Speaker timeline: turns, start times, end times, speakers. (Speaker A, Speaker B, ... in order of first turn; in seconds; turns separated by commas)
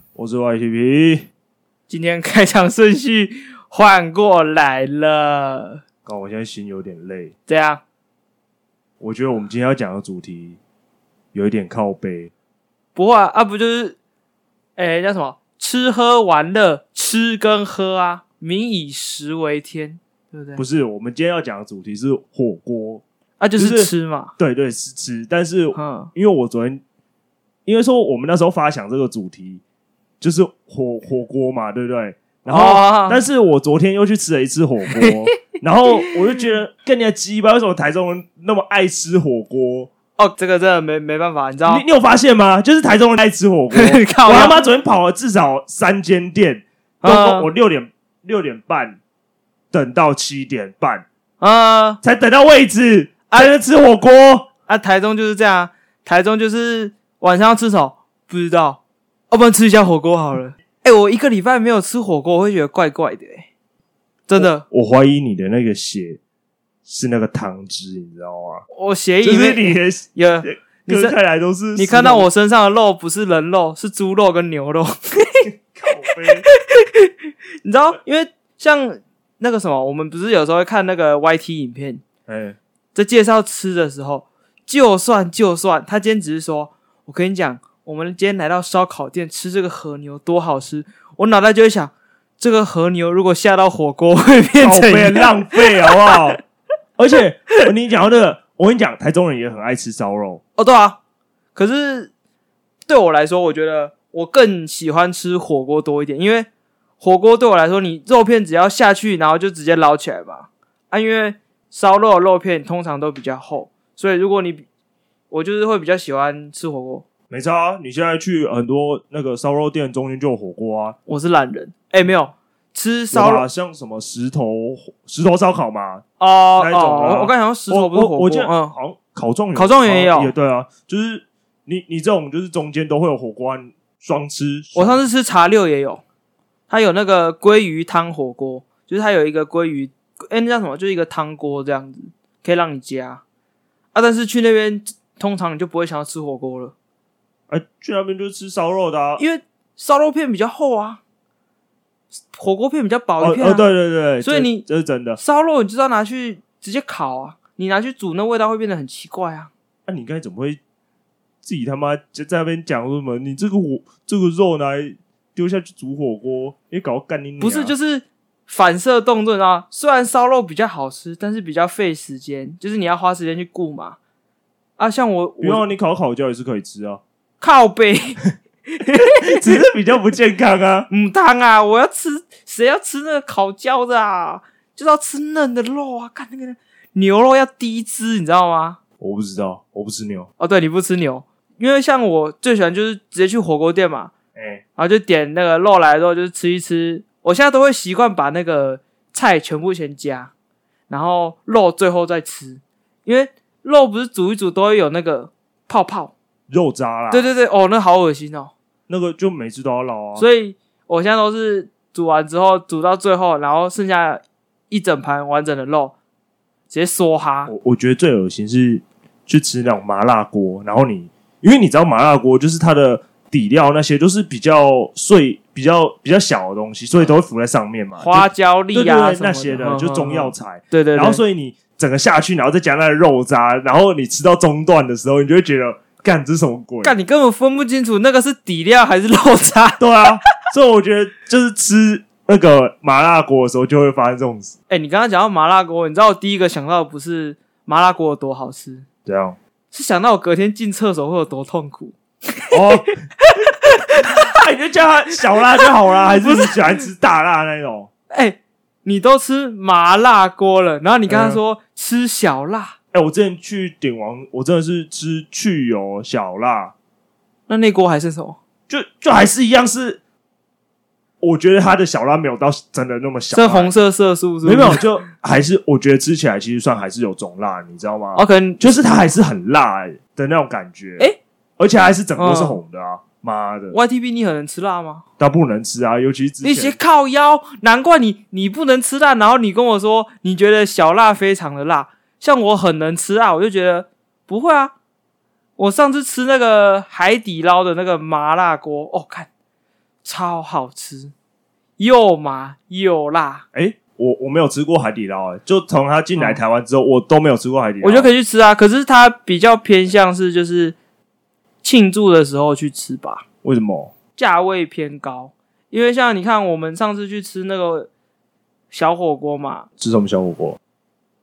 Speaker A: 0.1-1.3, Speaker B: 1.9-5.8, Speaker A: 6.0-7.3, Speaker B: 7.5-7.8, Speaker A: 9.0-10.6, Speaker A: 11.3-12.3, Speaker B: 12.9-14.0, Speaker B: 14.8-20.6, Speaker A: 20.6-23.0, Speaker B: 23.4-24.3, Speaker A: 23.6-26.8, Speaker B: 25.7-26.1, Speaker A: 27.7-29.6, Speaker A: 30.2-39.9, Speaker B: 32.5-33.2, Speaker B: 34.9-36.2, Speaker B: 40.2-41.8, Speaker A: 41.7-49.0, Speaker B: 43.7-44.7, Speaker B: 47.0-47.5, Speaker A: 49.7-51.1, Speaker B: 51.4-52.0, Speaker A: 52.0-54.5, Speaker B: 54.7-63.5, Speaker B: 64.3-64.7, Speaker A: 64.4-66.2, Speaker A: 66.8-68.7, Speaker B: 68.7-71.2, Speaker A: 69.2-72.3, Speaker B: 71.8-75.5, Speaker A: 75.5-76.5, Speaker B: 76.4-77.1, Speaker B: 77.6-82.0, Speaker A: 82.3-82.6, Speaker B: 83.0-96.4, Speaker A: 94.6-96.4, Speaker A: 97.0-100.4, Speaker B: 100.6-101.0, Speaker B: 101.5-102.1, Speaker B: 102.9-106.5, Speaker B: 107.0-114.7, Speaker B: 115.3-117.0, Speaker A: 117.3-121.0, Speaker B: 121.1-123.5, Speaker A: 123.1-126.0, Speaker B: 126.2-128.8, Speaker A: 126.6-135.0, Speaker B: 129.6-130.3, Speaker B: 134.8-136.0, Speaker B: 136.7-143.2, Speaker B: 143.9-146.7, Speaker A: 147.5-149.2, Speaker B: 149.2-151.0, Speaker B: 152.3-153.7, Speaker A: 153.2-155.2, Speaker B: 154.2-154.7, Speaker B: 155.2-159.5, Speaker A: 159.9-160.6, Speaker A: 161.4-167.7, Speaker B: 167.4-174.0, Speaker B: 174.8-175.7, Speaker A: 175.4-177.0, Speaker B: 177.4-179.6, Speaker A: 179.2-180.9, Speaker B: 180.9-188.8, Speaker A: 189.0-190.3, Speaker B: 190.4-194.1, Speaker A: 194.3-194.6, Speaker B: 194.8-200.3, Speaker B: 200.9-206.2, Speaker A: 206.5-207.3, Speaker B: 207.1-208.5, Speaker A: 208.9-210.2, Speaker B: 210.2-215.9, Speaker B: 216.7-217.5, Speaker A: 217.5-237.0, Speaker B: 228.0-231.2, Speaker B: 236.8-239.8, Speaker A: 239.8-244.6, Speaker B: 244.7-248.9, Speaker A: 249.1-249.4, Speaker B: 249.7-254.4, Speaker A: 252.5-253.0, Speaker A: 254.2-257.9, Speaker B: 255.6-256.8, Speaker B: 258.1-262.8, Speaker A: 261.1-261.4, Speaker A: 262.9-266.7, Speaker B: 267.5-268.4, Speaker A: 268.7-270.0, Speaker A: 271.2-273.7, Speaker B: 273.3-274.9, Speaker A: 274.4-281.1, Speaker B: 278.2-278.6, Speaker A: 281.6-283.8, Speaker B: 282.2-282.6, Speaker B: 283.7-285.0, Speaker A: 285.2-286.8, Speaker B: 286.4-294.7, Speaker B: 295.6-299.3, Speaker B: 300.0-301.1, Speaker B: 301.8-303.4, Speaker A: 303.5-308.1, Speaker B: 307.8-310.8, Speaker B: 311.6-313.2, Speaker A: 313.4-313.9, Speaker B: 314.2-317.9, Speaker B: 318.7-319.7, Speaker A: 319.8-320.6